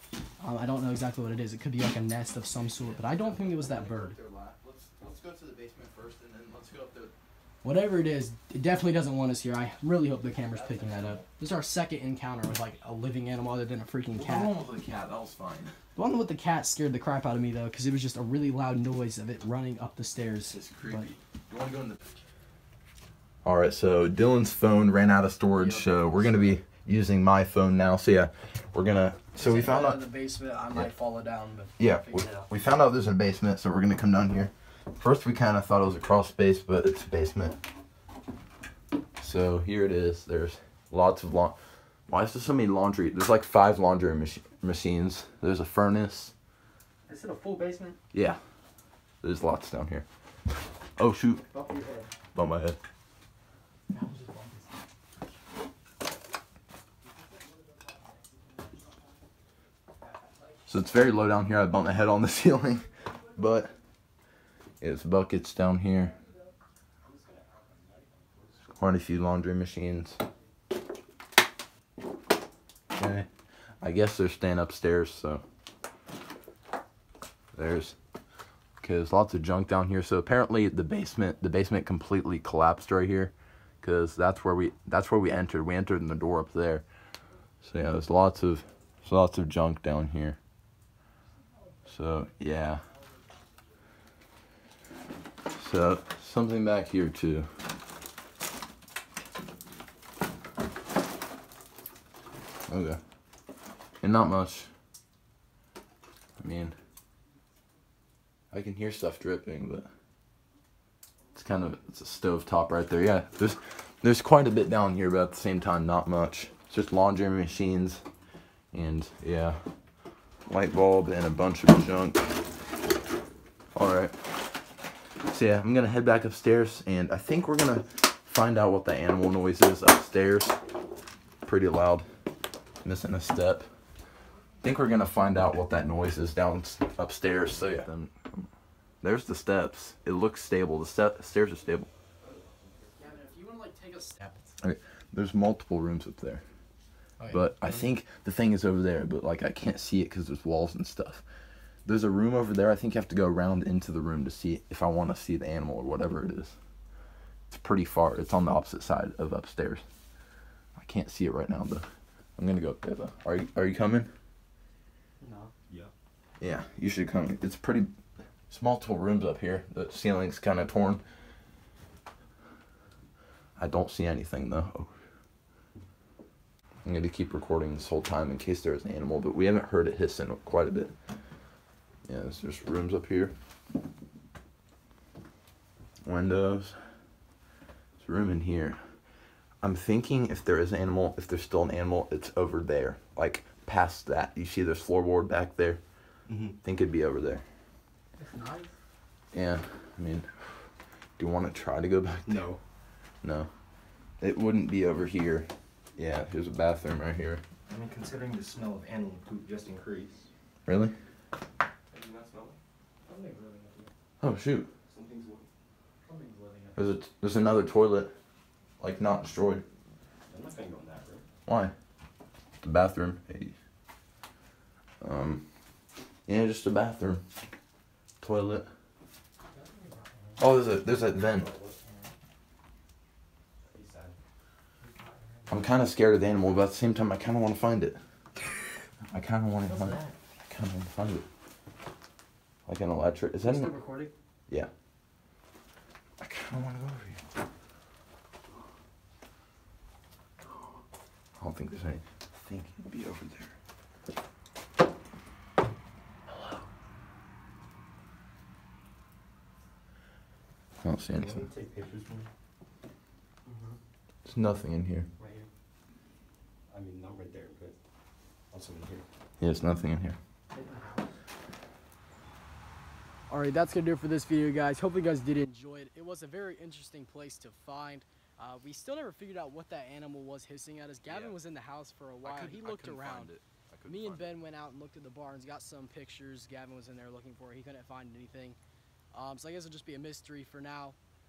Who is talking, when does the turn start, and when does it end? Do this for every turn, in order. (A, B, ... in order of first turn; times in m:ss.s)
0:00.4-0:04.2 A
0:02.4-0:07.1 B
0:07.6-0:14.5 A
0:10.4-0:11.3 B
0:14.2-0:15.8 B
0:16.0-0:21.1 A
0:20.5-0:22.0 B
0:23.4-0:30.0 B
0:29.4-0:32.4 A
0:31.8-0:37.6 B
0:39.2-0:41.6 B
0:42.1-0:46.3 B
0:47.1-0:48.0 A
0:48.1-0:48.4 B
0:49.2-0:50.0 B
0:51.0-0:51.5 B
0:51.5-0:52.1 A
0:52.3-0:52.8 B
0:53.9-0:54.7 A
1:00.7-1:03.7 B
1:04.8-1:06.2 B
1:07.0-1:08.8 C
1:08.7-1:10.2 B
1:12.9-1:15.4 B
1:17.5-1:18.0 B
1:18.8-1:26.8 B
1:27.6-1:30.4 B
1:31.8-1:32.8 B
1:35.6-1:37.5 B
1:42.7-1:43.0 B
1:44.0-1:44.7 B
1:46.4-1:46.7 B
1:48.5-1:49.9 B
1:51.3-1:58.0 B
1:58.7-1:59.7 B
2:00.5-2:02.4 B
2:03.7-2:04.4 B
2:05.3-2:10.6 B
2:11.4-2:12.1 B
2:12.8-2:13.7 B
2:14.6-2:18.5 B
2:19.0-2:21.9 B
2:22.2-2:23.1 C
2:23.0-2:24.5 A
2:24.6-2:26.4 B
2:27.2-2:27.9 A
2:27.3-2:31.2 B
2:31.8-2:36.5 B
2:37.5-2:39.8 B
2:40.8-2:44.1 B
2:45.2-2:45.5 A
2:46.4-2:47.9 B
2:48.5-2:51.0 B
2:53.6-2:54.9 B
2:56.8-3:00.9 B
3:02.0-3:03.3 B
3:06.0-3:06.9 B
3:08.0-3:08.8 B
3:09.6-3:15.8 B
3:16.3-3:16.6 C
3:16.6-3:17.4 B
3:18.2-3:18.7 A
3:19.3-3:22.5 B
3:22.3-3:22.6 C
3:23.2-3:23.5 B
3:24.2-3:27.4 B
3:27.7-3:30.3 C
3:30.6-3:30.9 B
3:31.9-3:32.6 C
3:33.1-3:33.9 A
3:34.2-3:34.7 B
3:34.9-3:35.5 C
3:36.0-3:36.9 A
3:36.8-3:38.1 B
3:38.8-3:39.6 B
3:40.3-3:41.2 C
3:41.4-3:41.7 B
3:42.6-3:43.5 B
3:45.0-3:45.4 B
3:46.3-3:47.2 B
3:48.2-3:48.7 B
3:49.5-3:50.4 A
3:50.4-3:51.5 B
3:51.2-3:51.8 C
3:53.6-3:54.2 C
3:54.8-3:55.6 A
3:55.5-3:58.0 B
3:59.1-4:01.2 B
3:59.6-4:00.1 A
4:02.6-4:03.7 B
4:03.4-4:04.1 A
4:06.2-4:07.2 B
4:11.4-4:13.5 B
4:20.8-4:21.4 B
4:21.1-4:22.3 C
4:24.2-4:25.1 B
4:25.2-4:25.5 C
4:26.7-4:27.8 C
4:28.5-4:29.0 C
4:29.4-4:30.2 B
4:30.5-4:31.0 A
4:33.3-4:43.3 A
4:41.0-4:41.4 B
4:42.2-4:44.3 B
4:43.9-4:48.6 A
4:49.1-4:51.0 A